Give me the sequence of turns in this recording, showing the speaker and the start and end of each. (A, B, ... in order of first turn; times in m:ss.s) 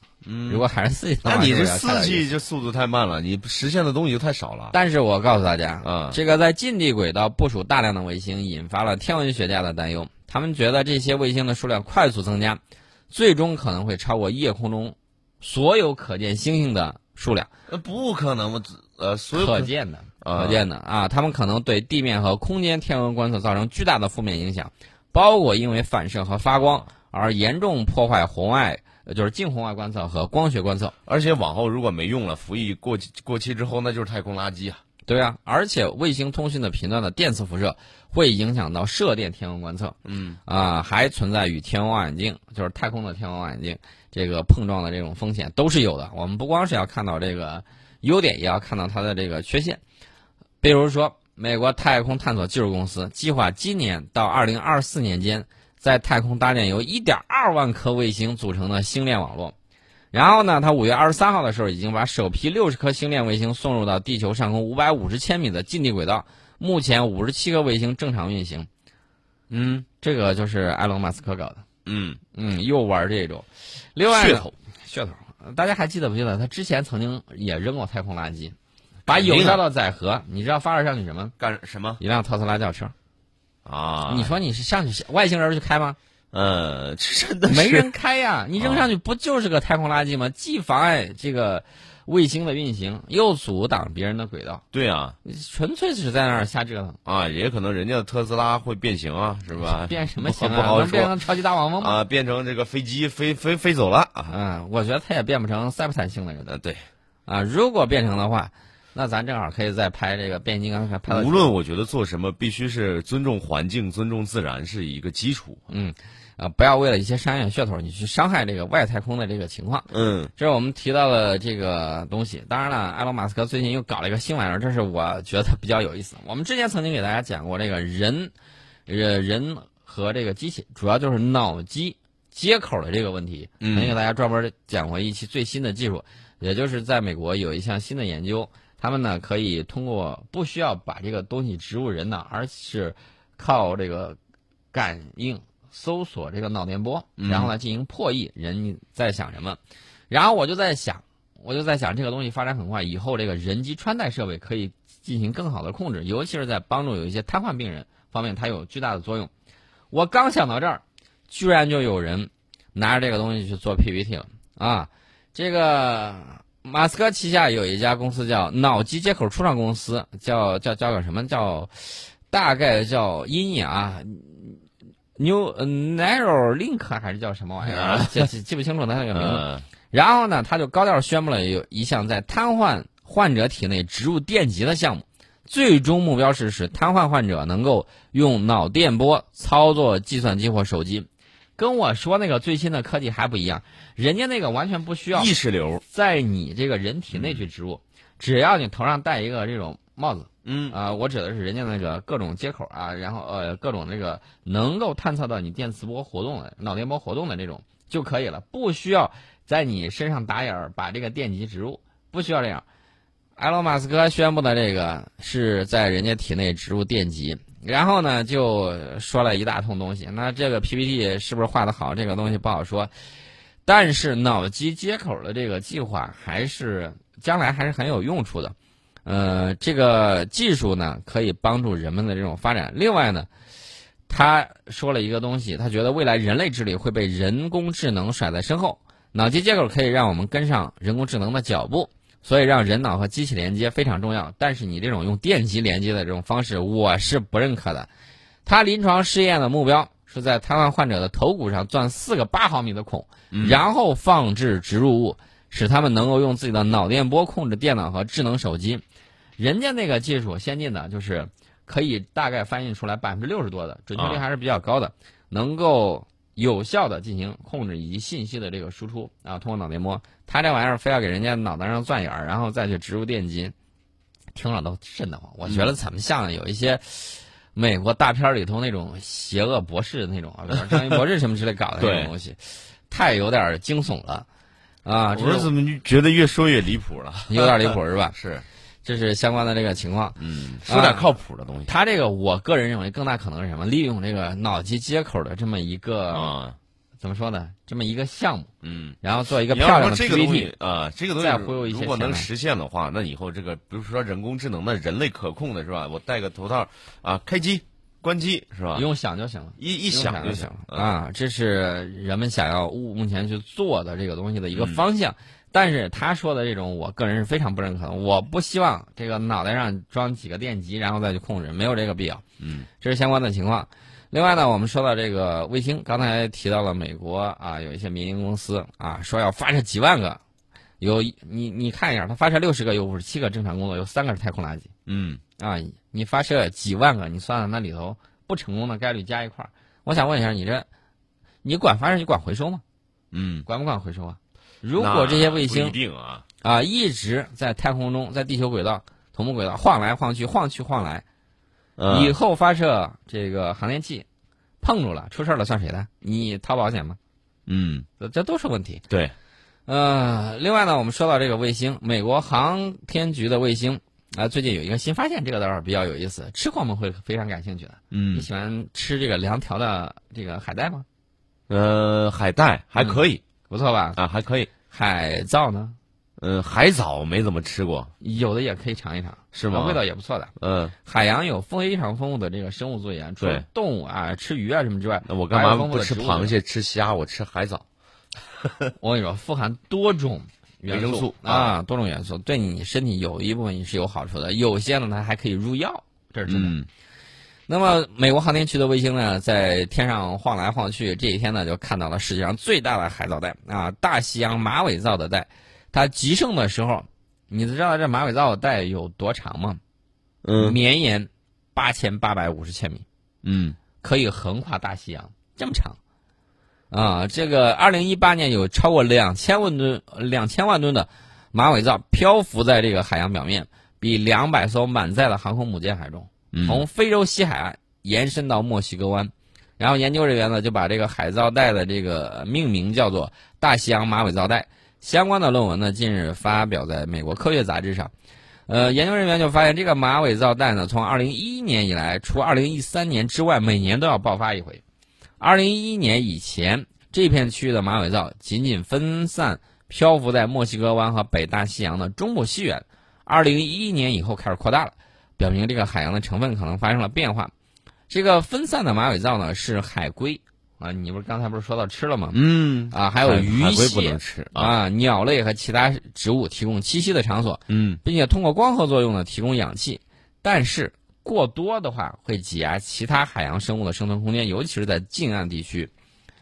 0:00.2-0:00.6 A
0:00.5-0:02.3 B
0:01.2-0:04.8 A
0:04.7-0:17.5 B
0:05.8-0:06.2 A
0:17.7-0:19.7 A
0:19.3-0:30.9 B
0:20.2-0:20.6 A
0:31.0-0:34.8 A
0:35.0-0:49.8 B
0:40.0-0:40.4 A
0:50.6-0:59.5 B
1:00.1-1:08.7 B
1:09.5-1:09.8 A
1:10.0-1:11.6 B
1:11.8-1:12.2 A
1:12.3-1:18.5 B
1:14.1-1:14.5 A
1:19.0-1:21.3 B
1:19.1-1:19.6 A
1:21.4-1:22.0 A
1:22.0-1:22.9 B
1:23.6-1:24.3 A
1:24.1-1:26.0 B
1:26.3-1:27.9 A
1:27.5-1:34.6 B
1:28.6-1:28.9 A
1:34.7-1:35.2 A
1:35.2-1:37.0 B
1:37.0-1:41.2 A
1:39.6-1:42.0 B
1:41.8-1:44.3 A
1:44.3-1:46.5 B
1:46.5-1:46.8 A
1:47.3-1:51.5 B
1:51.1-1:55.6 A
1:55.7-2:08.3 B
1:59.9-2:00.3 A
2:08.9-2:24.2 B
2:13.6-2:13.9 A
2:24.7-2:39.3 B
2:27.2-2:27.5 A
2:39.9-2:54.6 B
2:55.2-3:32.6 B
2:57.6-2:58.3 A
2:59.1-2:59.6 A
3:15.1-3:15.8 A
3:17.1-3:17.4 A
3:20.4-3:20.8 A
3:33.4-3:42.9 B
3:43.6-3:53.3 B
3:54.1-4:07.9 B
4:08.4-4:18.8 B
4:13.3-4:13.6 A
4:19.4-4:33.5 B
4:24.0-4:24.2 A
4:34.3-4:44.3 B
4:35.4-4:35.7 A
4:41.8-4:42.1 A
4:44.8-4:45.5 B
4:45.1-4:48.4 A
4:47.3-4:48.1 B
4:48.8-4:50.2 B
4:50.2-4:51.7 A
4:50.7-4:51.1 B
4:51.7-4:56.3 B
4:56.1-4:56.6 A
4:57.0-4:58.5 B
4:58.6-4:59.0 A
4:59.0-5:00.5 B
4:59.5-5:08.8 A
5:01.2-5:02.3 B
5:08.7-5:22.2 B
5:09.6-5:10.9 A
5:14.5-5:14.8 A
5:22.4-5:22.7 A
5:22.8-5:30.2 B
5:30.8-5:34.7 B
5:34.9-5:35.2 A
5:35.4-5:40.7 B
5:41.4-5:42.6 B
5:43.1-5:43.5 A
5:43.4-5:45.8 B
5:44.8-5:46.2 A
5:46.4-5:51.0 B
5:51.8-5:52.1 A
5:51.9-5:54.0 B
5:54.6-5:57.0 B
5:57.5-5:57.8 A
5:58.0-5:58.8 B
5:59.7-6:10.8 B
6:07.9-6:08.3 A
6:11.5-6:13.2 A
6:12.8-6:14.0 B
6:14.0-6:14.5 A
6:14.7-6:15.8 B
6:16.2-6:17.9 A
6:18.0-6:20.3 B
6:19.3-6:19.8 A
6:20.4-6:20.7 A
6:20.8-6:26.4 B
6:25.0-6:27.6 A
6:28.8-6:36.5 B
6:30.7-6:31.6 A
6:36.3-6:36.7 A
6:37.5-6:49.6 B
6:50.2-6:50.6 A
6:50.4-6:52.8 B
6:53.2-6:53.6 A
6:53.8-6:55.8 B
6:56.7-7:17.9 B
7:06.3-7:06.6 A
7:18.5-7:24.6 B
7:25.2-7:37.3 B
7:37.9-7:42.2 B
7:42.1-7:44.5 A
7:42.7-7:55.7 B
7:47.5-7:47.8 A